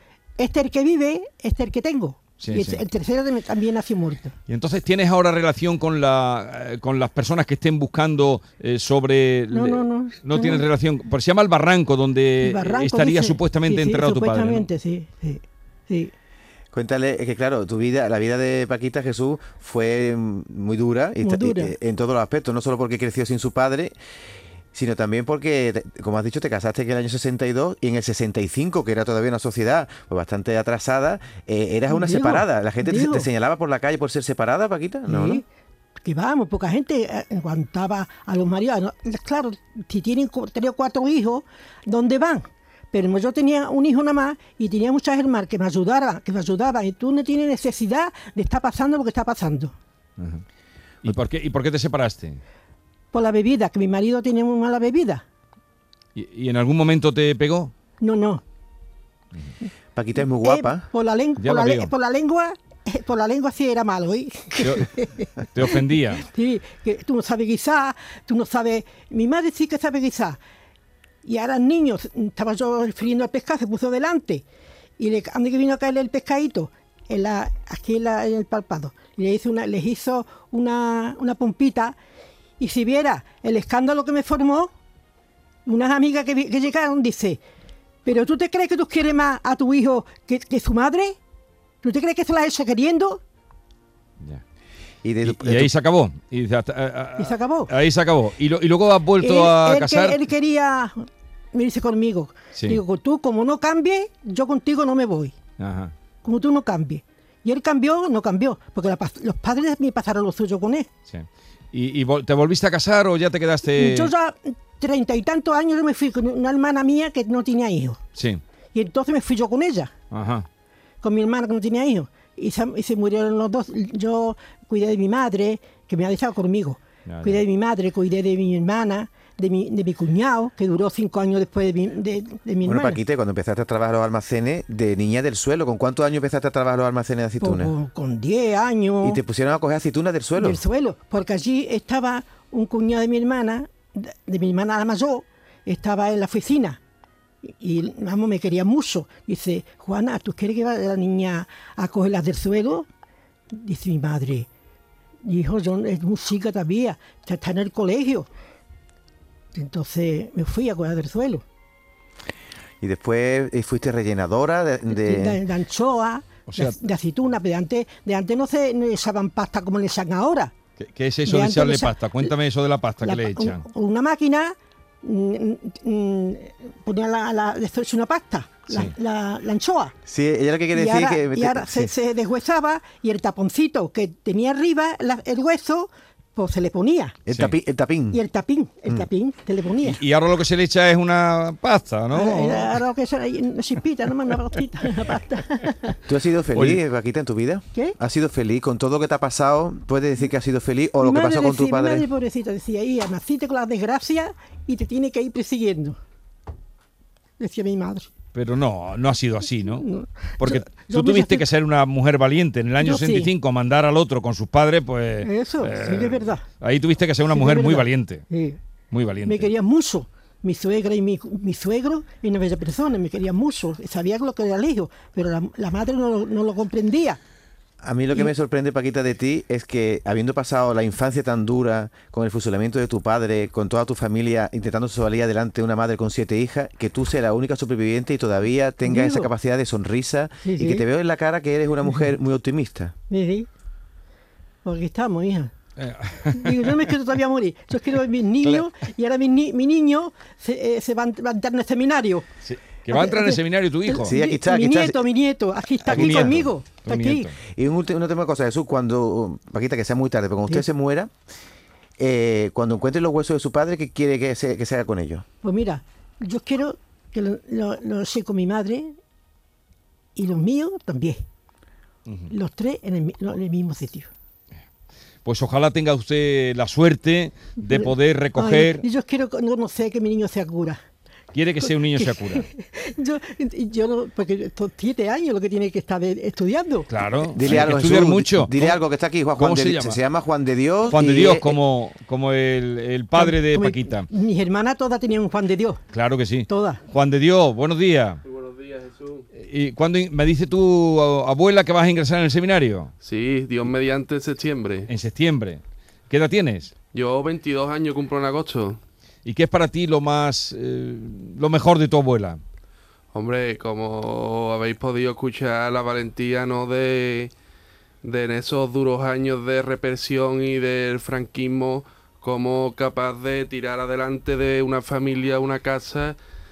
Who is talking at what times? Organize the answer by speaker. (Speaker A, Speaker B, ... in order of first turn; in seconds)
Speaker A: 0.4-4.3, 9.5-10.6, 12.4-16.1, 21.2-21.8, 31.9-33.3, 35.1-35.5, 36.0-49.7, 53.1-55.2, 58.0-58.4, 60.4-70.4, 71.2-74.5, 75.0-82.0, 82.6-84.7, 85.7-87.4, 88.0-91.2, 91.8-93.2, 97.2-97.7, 99.2-105.4, 106.2-110.9, 113.7-118.0, 118.7-119.9, 121.0-133.0, 137.4-139.2, 140.4-146.8, 147.4-152.9, 153.5-154.5, 155.2-158.3, 159.5-161.4, 164.9-170.5, 171.2-172.3, 173.0-179.9, 180.7-187.2, 188.1-190.0, 192.1-196.0, 201.0-206.0, 207.4-208.1, 209.7-211.4, 212.8-213.3, 215.2-216.4, 217.3-218.6, 219.2-227.2, 238.8-239.3, 240.4-240.8, 243.1-243.5, 244.6-245.5, 246.3-252.3, 252.9-257.3, 265.4-269.0, 270.2-271.2, 272.3-274.1, 277.7-280.8, 281.6-286.9, 293.1-295.8, 296.5-296.8
Speaker B: 2.4-2.8, 4.5-14.7, 50.2-50.4, 51.0-52.4, 56.1-57.7, 61.4-61.9, 64.6-66.3, 95.2-100.2, 102.5-102.8, 105.6-105.9, 111.1-114.1, 118.2-118.4, 120.1-120.5, 127.1-127.4, 166.5-166.8, 170.8-173.6, 189.8-192.8, 196.6-196.8, 208.3-209.9, 210.4-218.2, 218.9-219.5, 245.8-246.9, 252.4-254.2, 255.9-257.4, 275.2-278.8, 281.3-282.5, 286.9-288.8, 289.4-290.0, 290.9-294.1, 295.9-298.2, 299.4-302.9, 304.9-306.7, 309.2-312.4
Speaker C: 16.7-23.9, 24.7-35.4, 60.0-60.9, 95.0-95.7, 132.6-137.7, 139.0-140.6, 162.8-165.4, 180.1-181.9, 187.3-188.2, 196.1-202.1, 227.8-242.9, 254.1-255.1, 255.9-256.5, 257.6-261.1, 262.0-265.2, 287.4-291.6
Speaker D: 298.3-299.2, 303.0-304.9, 306.9-308.8, 313.1-317.3, 318.0-326.2